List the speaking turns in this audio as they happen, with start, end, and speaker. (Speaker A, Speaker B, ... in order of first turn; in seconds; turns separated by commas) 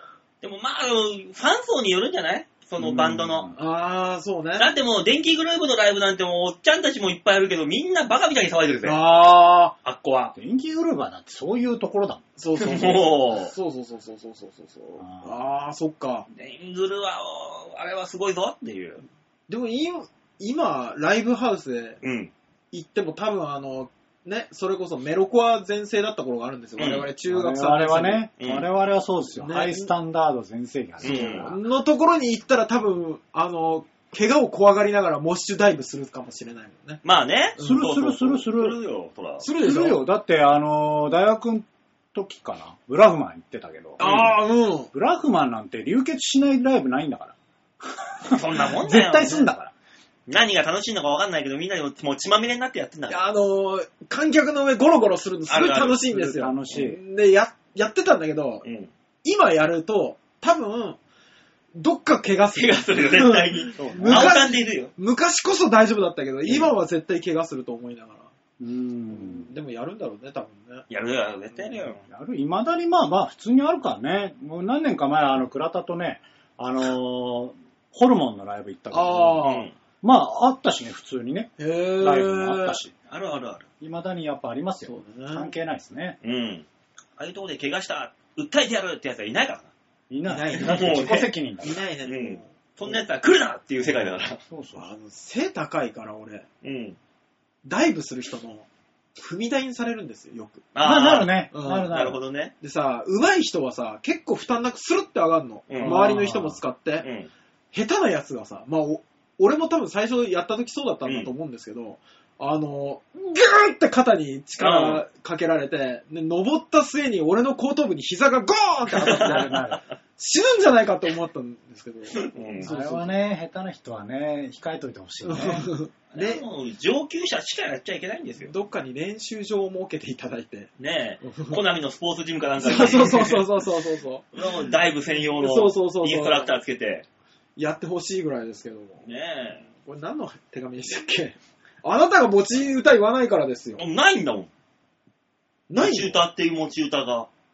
Speaker A: 0.4-3.5, Speaker B: 2.8-3.6, Speaker C: 3.5-4.7, Speaker A: 4.6-9.0, Speaker C: 8.8-9.7, Speaker A: 9.8-10.3, Speaker B: 10.3-12.2, Speaker C: 12.4-16.3, Speaker A: 12.6-13.5, Speaker B: 15.0-15.4, Speaker A: 16.3-19.0, Speaker C: 19.5-22.0, Speaker A: 22.0-22.3, Speaker C: 22.7-28.3, Speaker A: 26.8-27.1, Speaker B: 27.3-31.6, Speaker A: 28.4-28.7, Speaker C: 29.4-29.9, Speaker A: 31.0-31.5, Speaker C: 31.0-37.0, Speaker A: 37.0-39.5, Speaker C: 37.6-37.8, Speaker B: 37.6-38.8, Speaker C: 39.4-40.0, Speaker B: 39.6-44.1, Speaker A: 44.0-44.4, Speaker C: 44.0-44.9, Speaker B: 44.9-49.7, Speaker A: 48.3-49.5, Speaker A: 50.3-53.2, Speaker C: 53.1-58.6, Speaker A: 55.5-56.0, Speaker B: 56.1-57.0, Speaker A: 58.6-58.9, Speaker C: 59.2-61.0, Speaker C: 61.8-68.3, Speaker A: 62.5-64.9, Speaker B: 63.8-64.4, Speaker A: 66.4-66.7, Speaker B: 68.6-69.5, Speaker C: 69.1-70.9, Speaker A: 70.9-72.0, Speaker B: 72.0-79.5, Speaker C: 78.9-79.7, Speaker A: 79.4-79.7, Speaker B: 80.0-82.9, Speaker C: 81.6-82.8, Speaker A: 83.1-83.7, Speaker B: 83.8-86.2, Speaker C: 84.8-85.5, Speaker A: 86.2-86.7, Speaker A: 87.2-89.7, Speaker B: 90.1-91.8, Speaker C: 90.2-93.0, Speaker A: 90.5-91.3, Speaker A: 92.0-94.4, Speaker B: 94.4-94.8, Speaker C: 94.7-96.5, Speaker A: 96.6-97.0, Speaker C: 97.6-100.7, Speaker A: 100.7-102.5, Speaker B: 100.8-102.2, Speaker C: 101.5-101.9, Speaker C: 102.6-107.1, Speaker A: 105.7-106.1, Speaker B: 105.8-106.6, Speaker A: 107.0-107.3, Speaker C: 107.7-119.6, Speaker A: 111.0-111.3, Speaker A: 114.6-115.0, Speaker A: 119.0-119.5, Speaker B: 119.1-119.8, Speaker C: 120.2-123.2, Speaker A: 122.2-122.7, Speaker B: 122.6-125.7, Speaker C: 125.2-126.4, Speaker A: 126.1-128.5, Speaker C: 128.4-130.7, Speaker A: 130.8-133.5, Speaker C: 131.2-131.6, Speaker C: 132.6-134.7, Speaker A: 134.3-137.1, Speaker C: 135.3-136.6, Speaker C: 137.6-139.1, Speaker A: 139.0-139.7, Speaker C: 139.7-143.8, Speaker A: 143.8-144.5, Speaker C: 145.7-146.2, Speaker A: 145.7-147.3